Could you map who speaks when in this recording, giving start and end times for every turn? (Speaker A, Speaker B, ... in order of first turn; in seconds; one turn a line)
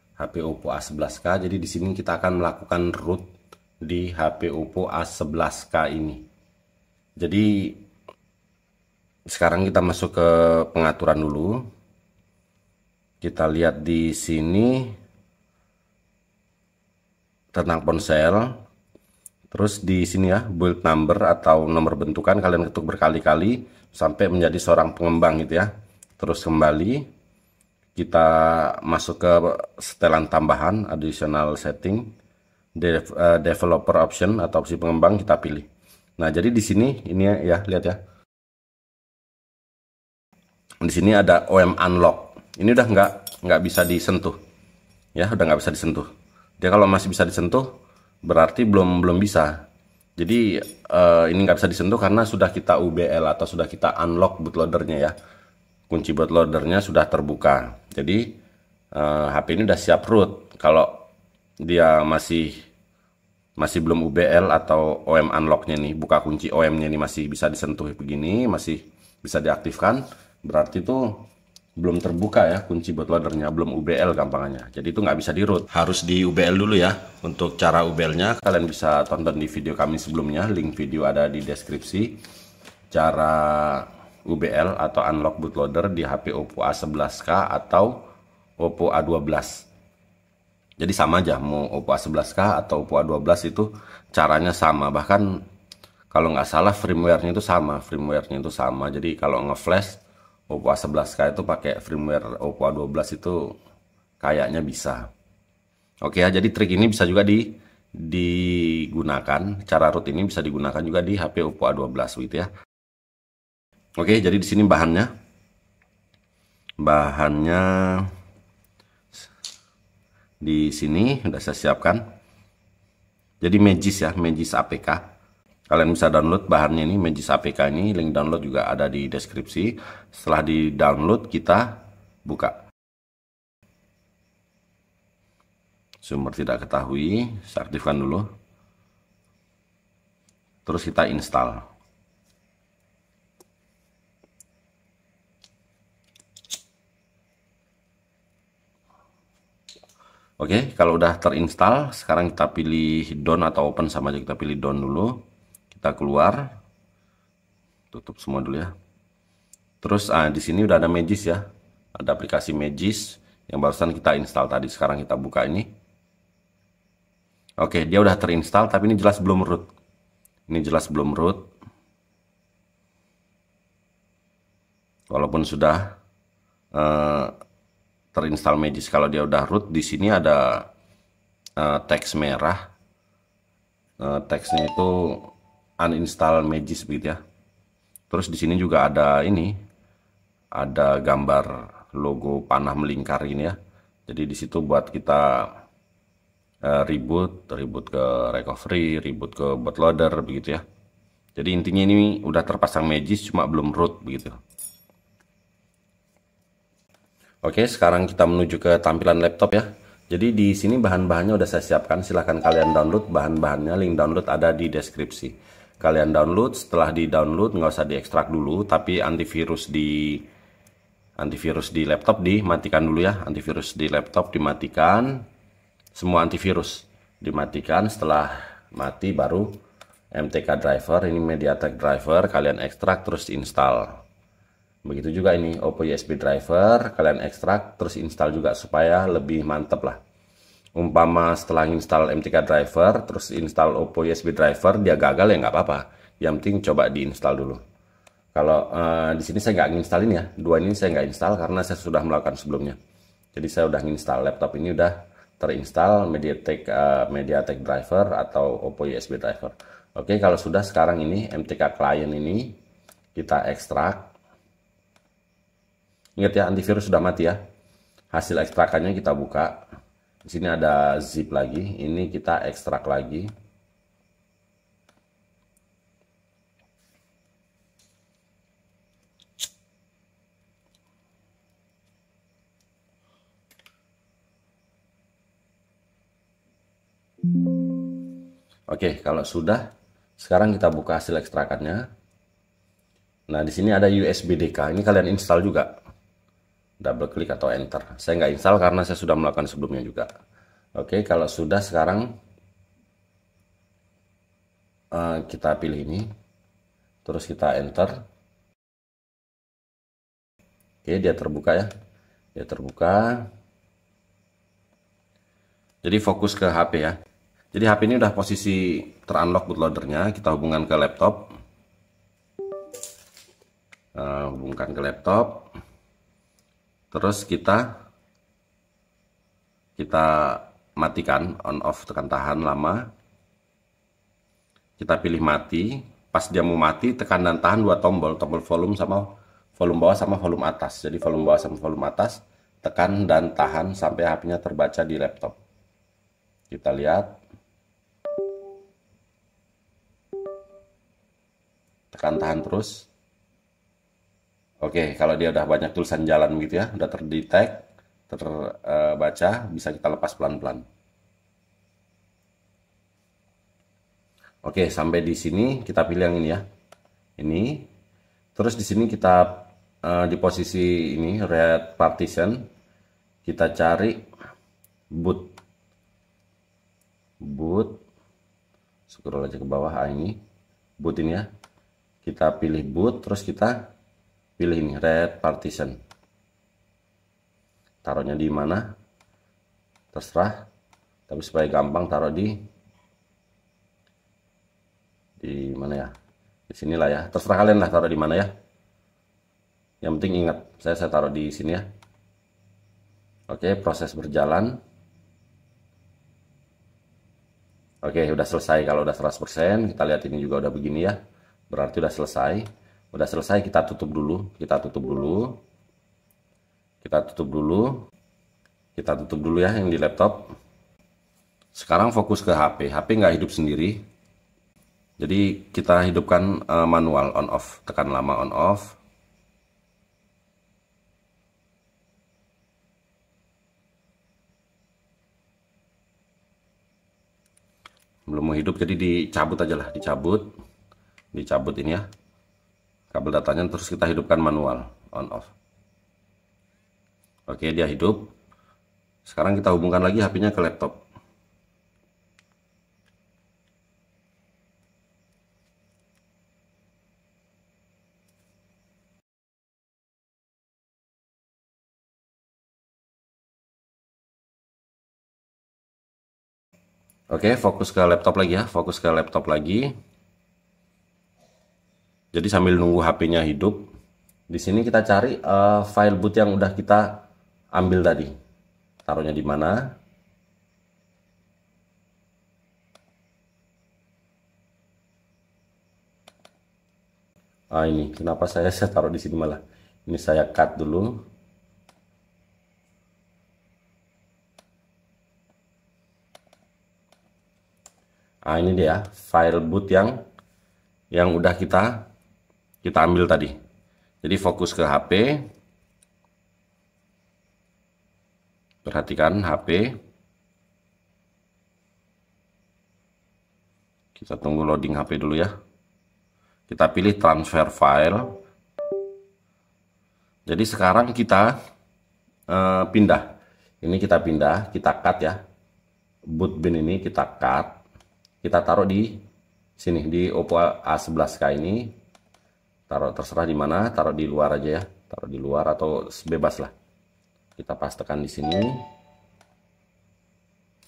Speaker A: 0.2-3.2
Speaker A: 3.8-6.2
Speaker A: 7.2-7.8
Speaker A: 9.3-11.6
Speaker A: 13.2-14.9
Speaker A: 17.5-18.6
Speaker A: 19.5-27.1
Speaker A: 27.9-32.1
Speaker A: 32.8-35.7
Speaker A: 36.2-38.0
Speaker A: 40.8-44.4
Speaker A: 45.2-47.7
Speaker A: 48.2-49.5
Speaker A: 50.2-55.1
Speaker A: 55.9-58.2
Speaker A: 58.9-61.0
Speaker A: 61.6-62.5
Speaker A: 63.6-71.2
Speaker A: 71.8-82.2
Speaker A: 82.9-88.0
Speaker A: 88.6-89.7
Speaker A: 90.8-95.4
Speaker A: 96.1-103.5
Speaker A: 104.2-105.0
Speaker A: 106.0-112.5
Speaker A: 114.0-115.1
Speaker A: 116.8-118.1
Speaker A: 120.4-122.0
Speaker A: 123.4-125.0
Speaker A: 125.7-132.6
Speaker A: 136.0-138.3
Speaker A: 140.7-141.6
Speaker A: 150.4-155.2
Speaker A: 155.7-156.6
Speaker A: 157.9-158.7
Speaker A: 159.8-161.4
Speaker A: 161.9-165.7
Speaker A: 167.6-169.7
Speaker A: 170.5-171.5
Speaker A: 175.1-175.9
Speaker A: 176.7-177.3
Speaker A: 178.1-180.7
Speaker A: 181.6-182.6
Speaker A: 184.0-187.2
Speaker A: 188.1-189.5
Speaker A: 190.6-195.5
Speaker A: 196.6-200.6
Speaker A: 201.4-204.4
Speaker A: 207.4-220.2
Speaker A: 221.2-225.2
Speaker A: 225.9-229.5
Speaker A: 230.1-234.0
Speaker A: 234.8-240.0
Speaker A: 240.8-247.6
Speaker A: 248.3-252.8
Speaker A: 253.3-262.6
Speaker A: 263.1-264.1
Speaker A: 266.2-267.4
Speaker A: 268.1-269.6
Speaker A: 270.2-273.3
Speaker A: 288.7-289.6
Speaker A: 290.2-291.8
Speaker A: 293.3-295.7
Speaker A: 296.8-300.1
Speaker A: 300.8-302.1
Speaker A: 304.9-306.1
Speaker A: 307.0-307.9
Speaker A: 310.8-311.7
Speaker A: 312.4-313.2
Speaker A: 315.8-317.0
Speaker A: 317.5-321.3
Speaker A: 323.9-325.5
Speaker A: 326.9-327.7
Speaker A: 329.8-332.8
Speaker A: 334.8-345.4
Speaker A: 346.5-347.1
Speaker A: 351.9-352.9
Speaker A: 354.6-360.6
Speaker A: 364.4-366.4
Speaker A: 367.2-367.7
Speaker A: 368.4-372.4
Speaker A: 373.2-374.0
Speaker A: 374.9-375.3
Speaker A: 377.2-377.8
Speaker A: 378.9-380.1
Speaker A: 380.8-381.2
Speaker A: 382.0-383.6
Speaker A: 384.4-385.8
Speaker A: 387.8-388.6
Speaker A: 389.9-390.4
Speaker A: 391.1-392.3
Speaker A: 395.2-395.9
Speaker A: 396.5-398.3
Speaker A: 399.8-401.6
Speaker A: 403.3-404.6
Speaker A: 407.8-411.0
Speaker A: 411.5-415.4
Speaker A: 416.8-417.8
Speaker A: 418.8-420.3
Speaker A: 421.5-423.8
Speaker A: 425.0-428.8
Speaker A: 438.1-440.2
Speaker A: 441.1-441.8
Speaker A: 442.9-445.3
Speaker A: 447.3-448.1
Speaker A: 449.1-450.8
Speaker A: 467.1-469.7
Speaker A: 472.1-473.7
Speaker A: 474.3-477.0
Speaker A: 477.5-478.1
Speaker A: 478.8-479.7
Speaker A: 487.5-491.0
Speaker A: 498.2-500.0
Speaker A: 500.9-501.8
Speaker A: 502.6-503.3
Speaker A: 504.0-505.2
Speaker A: 508.6-509.7
Speaker A: 514.0-515.3
Speaker A: 516.5-518.2
Speaker A: 520.3-521.4
Speaker A: 522.3-523.1
Speaker A: 523.6-525.2
Speaker A: 526.1-527.6
Speaker A: 528.2-529.0
Speaker A: 529.6-531.7
Speaker A: 532.7-536.5
Speaker A: 537.4-538.6